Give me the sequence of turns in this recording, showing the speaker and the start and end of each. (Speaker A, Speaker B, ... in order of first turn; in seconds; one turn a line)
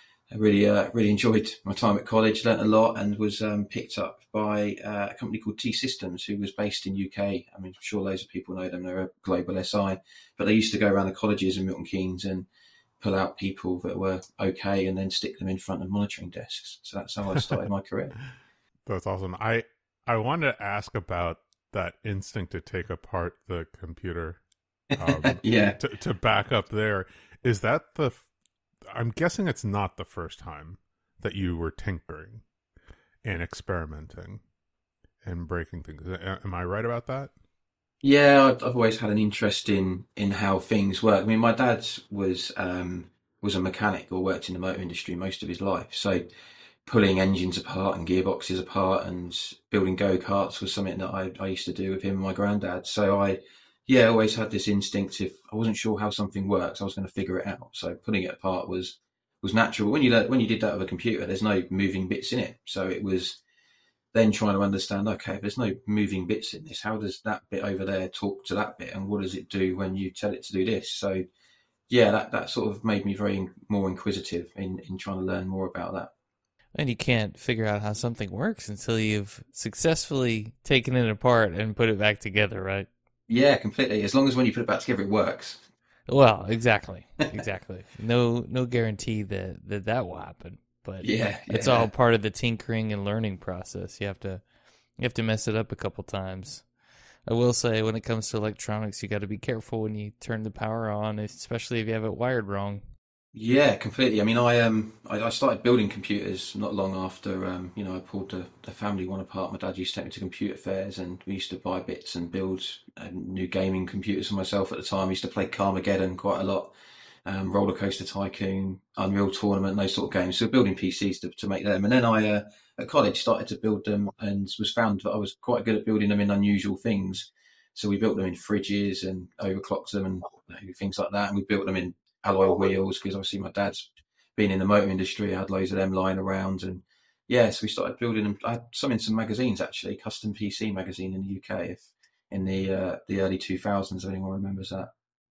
Speaker A: 0.3-12.5
Speaker A: 13.0-18.1
Speaker B: 18.9-24.4
Speaker A: 24.9-25.8
Speaker B: 25.0-28.2
Speaker B: 28.9-32.4
Speaker B: 33.2-34.4
Speaker B: 35.2-37.3
Speaker A: 38.0-46.3
Speaker A: 46.9-63.4
Speaker A: 64.1-71.2
Speaker A: 71.9-76.1
Speaker C: 76.7-82.9
Speaker A: 83.3-85.6
Speaker C: 86.1-94.4
Speaker A: 91.0-91.9
Speaker C: 95.0-96.6
Speaker C: 97.3-102.8
Speaker A: 103.3-116.7
Speaker A: 117.2-144.9